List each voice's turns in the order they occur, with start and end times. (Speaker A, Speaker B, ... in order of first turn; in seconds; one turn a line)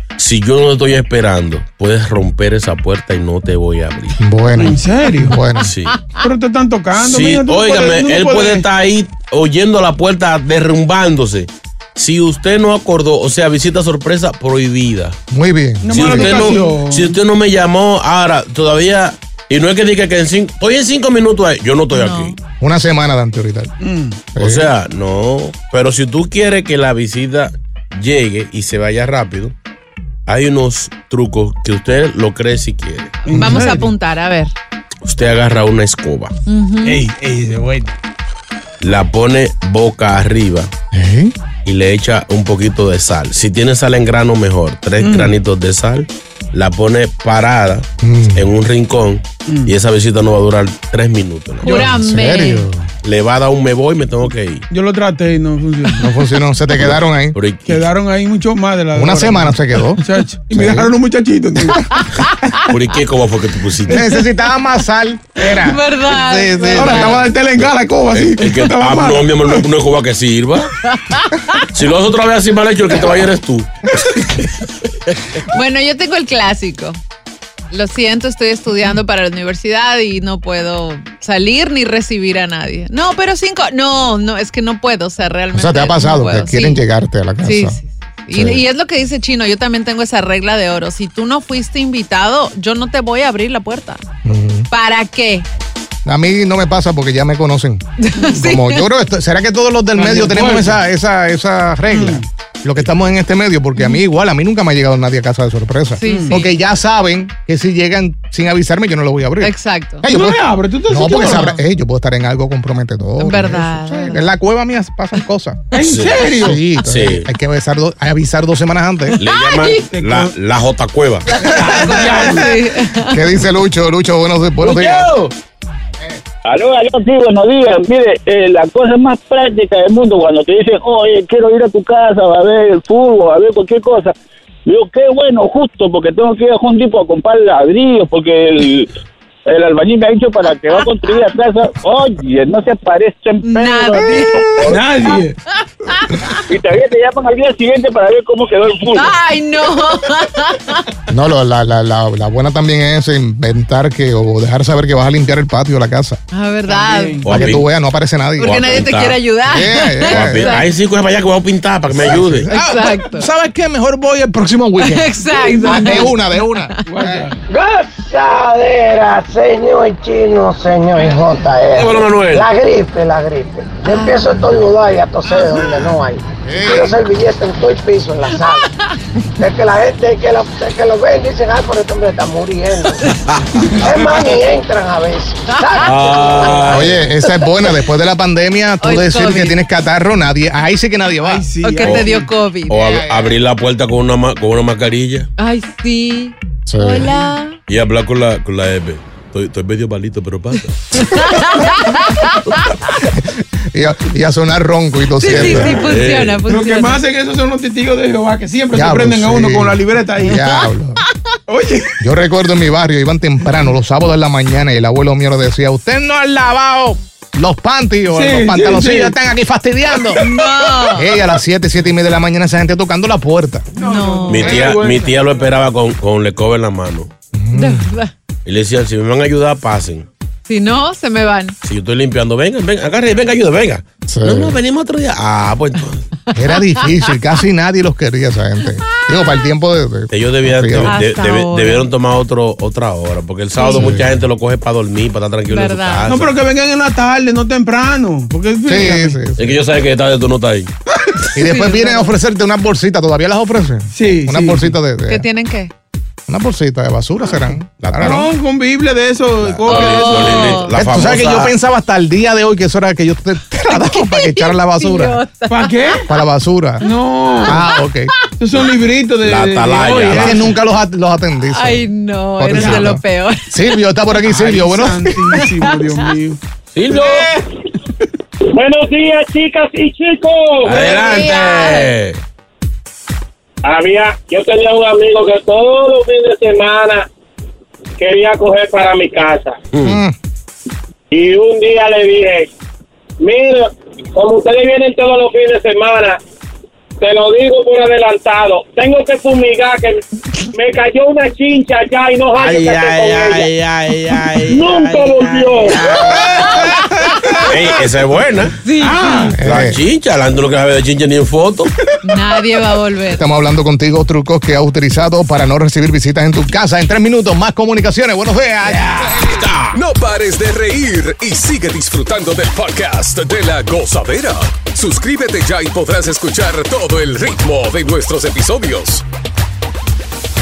Speaker A: 0.2-4.2
Speaker B: 4.2-5.7
Speaker C: 4.5-5.4
Speaker A: 5.6-6.0
Speaker C: 6.2-8.7
Speaker A: 7.0-15.2
Speaker B: 15.3-16.6
Speaker C: 15.8-17.1
Speaker A: 15.9-22.4
Speaker D: 21.9-22.4
Speaker B: 22.6-23.7
Speaker C: 23.8-24.3
Speaker B: 24.4-24.7
Speaker A: 24.4-29.6
Speaker A: 30.3-33.2
Speaker C: 33.3-33.9
Speaker D: 33.3-34.5
Speaker A: 35.0-36.3
Speaker D: 36.5-37.0
Speaker C: 36.8-37.9
Speaker A: 38.8-40.7
Speaker B: 40.9-41.3
Speaker A: 41.6-51.9
Speaker C: 45.0-45.3
Speaker B: 48.0-48.5
Speaker C: 49.5-49.7
Speaker D: 51.6-52.7
Speaker C: 51.6-51.9
Speaker B: 51.8-52.9
Speaker A: 53.0-54.7
Speaker C: 54.7-56.1
Speaker B: 56.0-57.4
Speaker A: 56.8-57.9
Speaker C: 57.7-61.9
Speaker B: 58.9-60.9
Speaker D: 61.7-62.7
Speaker A: 62.7-64.1
Speaker B: 63.9-67.3
Speaker D: 65.6-67.2
Speaker C: 66.8-69.6
Speaker A: 67.6-70.7
Speaker D: 70.9-71.7
Speaker A: 71.7-74.5
Speaker D: 75.5-77.0
Speaker D: 77.7-86.8
Speaker B: 85.5-87.8
Speaker D: 87.4-94.0
Speaker B: 88.3-88.6
Speaker B: 94.2-94.7
Speaker D: 94.7-95.5
Speaker B: 96.0-115.7
Speaker D: 98.0-98.9
Speaker C: 100.0-100.8
Speaker C: 101.9-102.2
Speaker D: 106.0-106.5
Speaker C: 106.0-106.4
Speaker D: 109.4-110.1
Speaker C: 110.1-111.5
Speaker D: 111.3-111.6
Speaker D: 113.2-114.2
Speaker C: 115.7-116.6
Speaker A: 115.8-117.3
Speaker B: 116.3-119.2
Speaker D: 119.1-119.9
Speaker A: 119.2-121.3
Speaker C: 119.9-120.3
Speaker D: 121.3-123.3
Speaker C: 121.5-122.6
Speaker B: 123.1-125.1
Speaker C: 124.7-125.3
Speaker E: 126.5-134.2
Speaker E: 134.7-138.9
Speaker E: 139.5-144.7
Speaker D: 140.7-141.2
Speaker D: 143.4-144.8
Speaker C: 144.6-145.4
Speaker D: 145.9-146.4
Speaker E: 146.5-149.1
Speaker D: 148.9-150.8
Speaker B: 151.1-156.2
Speaker D: 156.3-157.2
Speaker C: 156.7-157.5
Speaker A: 157.2-157.7
Speaker B: 157.3-158.8
Speaker D: 158.4-160.7
Speaker A: 158.4-159.2
Speaker B: 159.5-160.6
Speaker A: 160.1-162.5
Speaker B: 161.9-167.2
Speaker D: 162.5-163.3
Speaker D: 164.8-166.9
Speaker C: 166.9-167.4
Speaker F: 167.5-178.7
Speaker A: 171.7-172.5
Speaker D: 173.8-174.4
Speaker B: 176.4-177.0
Speaker D: 178.4-178.8
Speaker F: 179.4-183.0
Speaker C: 183.7-184.3
Speaker F: 183.8-186.5
Speaker D: 185.5-186.6
Speaker A: 185.8-187.0
Speaker B: 186.7-191.5
Speaker D: 188.8-189.6
Speaker C: 191.2-192.3
Speaker D: 191.6-192.8
Speaker A: 191.8-192.1
Speaker A: 192.7-195.3
Speaker B: 192.8-193.3
Speaker D: 195.4-197.6
Speaker B: 196.7-197.1
Speaker A: 197.7-201.2
Speaker D: 201.0-202.7
Speaker B: 203.1-205.8
Speaker D: 205.2-207.0
Speaker A: 205.3-206.4
Speaker C: 206.5-210.4
Speaker B: 208.7-211.0
Speaker C: 211.5-212.0
Speaker B: 212.0-220.3
Speaker C: 218.1-219.2
Speaker D: 220.1-221.2
Speaker B: 220.9-223.7
Speaker C: 223.8-225.5
Speaker D: 223.8-224.7
Speaker A: 224.3-227.1
Speaker B: 227.3-227.9
Speaker D: 227.5-228.1
Speaker A: 228.4-230.1
Speaker D: 230.5-231.6
Speaker A: 231.6-236.1
Speaker B: 234.1-234.6
Speaker B: 236.3-241.0
Speaker D: 236.5-237.1
Speaker D: 238.9-239.3
Speaker A: 240.1-246.3
Speaker D: 240.8-241.9
Speaker D: 243.6-243.9
Speaker B: 243.7-244.2
Speaker D: 245.5-246.1
Speaker C: 246.1-249.2
Speaker B: 248.7-249.6
Speaker A: 249.4-250.7
Speaker B: 251.3-255.3
Speaker D: 251.4-252.1
Speaker C: 253.9-254.8
Speaker D: 255.1-255.7
Speaker B: 256.3-258.3
Speaker A: 257.8-258.2
Speaker C: 258.0-260.6
Speaker A: 259.6-261.6
Speaker D: 259.6-260.7
Speaker B: 260.7-265.2
Speaker D: 263.7-266.0
Speaker C: 265.5-266.0
Speaker B: 266.1-266.8
Speaker C: 266.8-267.6
Speaker D: 267.4-267.8
Speaker B: 267.4-268.1
Speaker C: 268.4-270.6
Speaker A: 269.2-270.5
Speaker B: 270.1-275.2
Speaker D: 271.4-273.8
Speaker C: 272.5-272.9
Speaker C: 274.3-276.4
Speaker D: 275.3-276.1
Speaker A: 276.7-277.3
Speaker C: 276.9-277.2
Speaker G: 278.5-280.9
Speaker A: 280.6-282.2
Speaker D: 280.7-281.9
Speaker G: 283.6-287.1
Speaker G: 288.0-289.6
Speaker A: 289.7-290.0
Speaker B: 289.8-290.1
Speaker G: 291.1-292.5
Speaker G: 293.2-296.2
Speaker G: 297.0-300.0
Speaker G: 300.5-303.5
Speaker A: 302.4-306.5
Speaker G: 304.5-305.8
Speaker D: 306.2-307.5
Speaker A: 307.4-308.6
Speaker D: 308.6-309.3
Speaker C: 308.8-309.3
Speaker B: 309.4-309.8
Speaker A: 309.4-311.7
Speaker D: 312.0-313.2
Speaker B: 313.1-319.4
Speaker A: 319.1-319.8
Speaker H: 319.7-329.0